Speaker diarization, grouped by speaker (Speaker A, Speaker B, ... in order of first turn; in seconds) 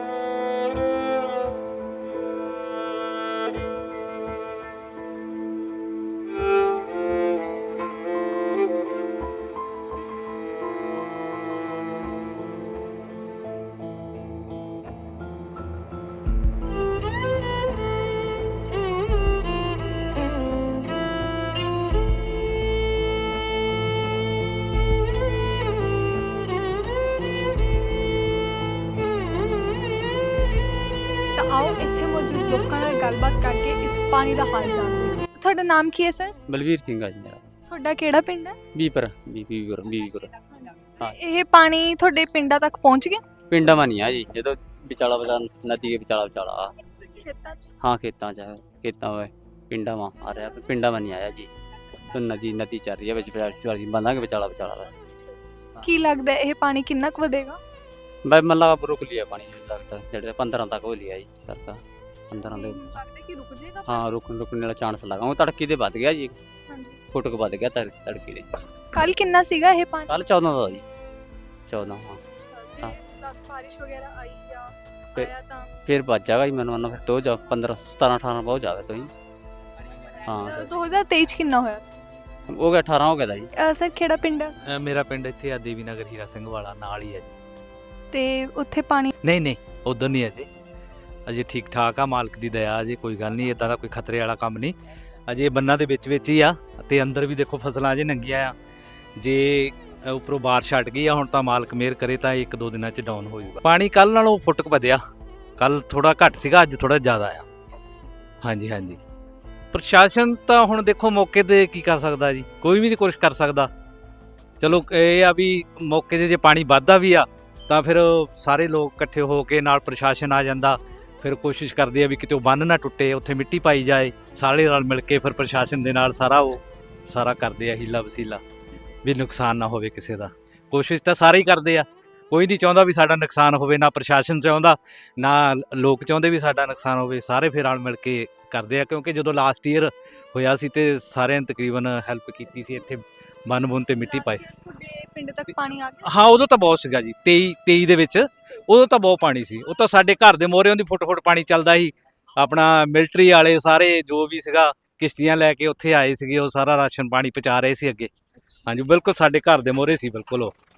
Speaker A: 31.4-36.3, 37.7-38.6, 41.0-43.2, 47.3-47.7, 55.8-57.6, 62.5-64.0, 66.7-67.0, 68.9-70.2, 72.5-75.7, 80.4-82.0, 83.6-84.5, 88.1-89.1, 144.0-146.1
Speaker B: 36.5-37.5, 38.8-40.3, 43.5-46.7, 47.8-51.5, 52.1-54.9, 58.2-63.0, 63.9-66.3, 67.1-68.5, 70.1-70.8, 71.7-72.2, 75.9-79.1, 80.3-80.7, 82.5-83.5
Speaker C: 84.7-87.3, 89.2-90.5, 91.3-94.7, 95.3-98.5, 99.2-105.0, 105.6-107.5, 108.4-109.0, 109.7-113.7, 114.6-128.4, 129.0-144.4, 146.1-158.1, 158.7-160.5